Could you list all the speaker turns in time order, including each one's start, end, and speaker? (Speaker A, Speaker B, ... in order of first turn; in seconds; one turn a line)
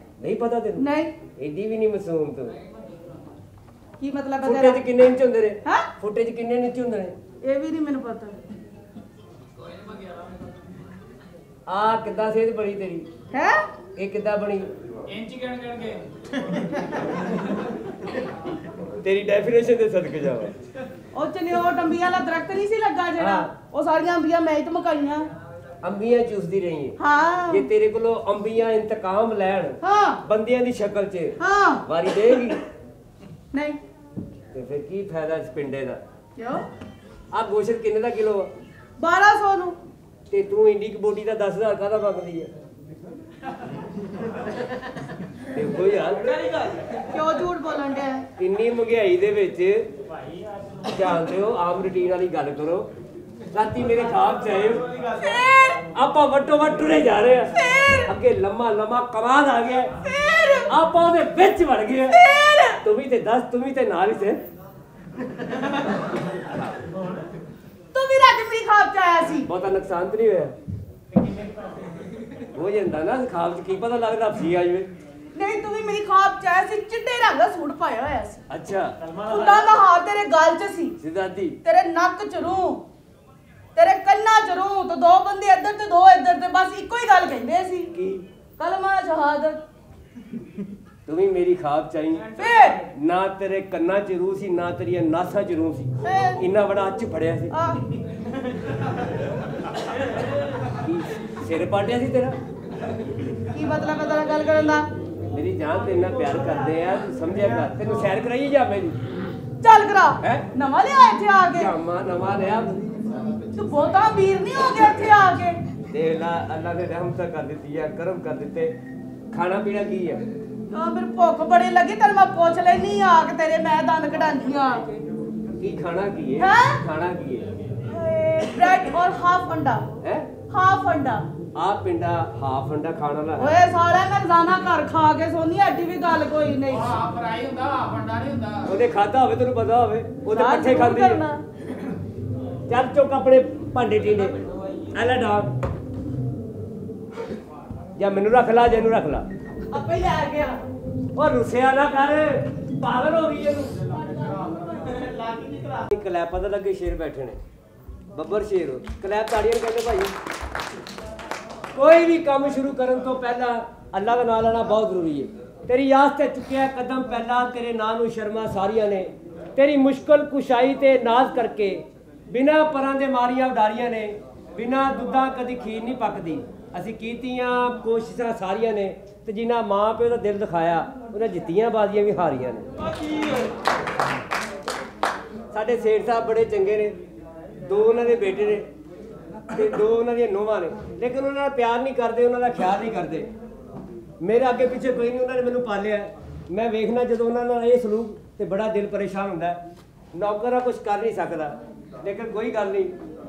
Speaker A: 0.2-0.9
Speaker B: 0.8-1.1
Speaker A: 1.4-2.6
Speaker B: 4.0-4.8
Speaker A: 4.4-7.2
Speaker B: 7.4-8.4
Speaker A: 11.7-13.1
Speaker B: 13.3-13.7
Speaker A: 14.0-14.7
Speaker C: 15.2-15.9
Speaker A: 19.0-20.6
Speaker B: 21.1-25.3
Speaker A: 23.2-23.5
Speaker A: 25.8-27.0
Speaker B: 27.0-27.6
Speaker A: 27.5-32.6
Speaker B: 29.8-30.2
Speaker B: 31.4-31.8
Speaker B: 33.5-33.8
Speaker A: 34.5-36.0
Speaker B: 36.4-36.7
Speaker A: 37.3-38.5
Speaker B: 39.0-39.8
Speaker A: 40.3-42.5
Speaker A: 45.5-46.3
Speaker B: 47.1-48.3
Speaker A: 48.4-49.9
Speaker A: 50.9-52.9
Speaker A: 53.5-54.8
Speaker B: 55.1-55.8
Speaker A: 55.8-59.9
Speaker B: 57.7-58.0
Speaker B: 60.0-60.7
Speaker A: 60.7-62.2
Speaker B: 62.1-62.8
Speaker A: 62.8-64.4
Speaker B: 67.9-69.5
Speaker A: 69.5-70.5
Speaker A: 72.5-74.9
Speaker B: 75.3-78.4
Speaker A: 78.5-79.0
Speaker B: 79.2-81.0
Speaker A: 81.0-81.6
Speaker B: 81.6-82.8
Speaker B: 83.8-87.9
Speaker A: 87.9-88.2
Speaker B: 88.6-89.6
Speaker A: 91.1-92.4
Speaker B: 92.4-92.9
Speaker A: 92.9-97.5
Speaker B: 96.0-96.5
Speaker B: 97.5-97.8
Speaker A: 100.7-102.4
Speaker B: 103.5-104.9
Speaker A: 105.3-109.0
Speaker B: 109.6-111.7
Speaker A: 111.5-113.0
Speaker B: 113.5-115.6
Speaker A: 115.9-118.7
Speaker A: 119.3-120.2
Speaker B: 120.7-125.0
Speaker A: 125.6-127.5
Speaker B: 126.4-126.8
Speaker B: 127.9-129.9
Speaker A: 130.0-130.3
Speaker B: 130.5-131.3
Speaker A: 131.6-133.5
Speaker B: 133.4-137.2
Speaker C: 137.3-138.5
Speaker A: 138.6-141.2
Speaker B: 140.3-141.4
Speaker A: 142.7-144.4
Speaker A: 144.9-145.5
Speaker A: 148.0-149.3
Speaker B: 149.7-150.6
Speaker A: 151.2-153.8
Speaker B: 154.0-155.5
Speaker A: 155.7-157.4
Speaker A: 158.1-160.1
Speaker A: 161.7-182.7
Speaker A: 185.5-187.0
Speaker A: 187.6-188.7
Speaker A: 189.5-193.3
Speaker A: 194.2-199.6
Speaker A: 200.1-202.9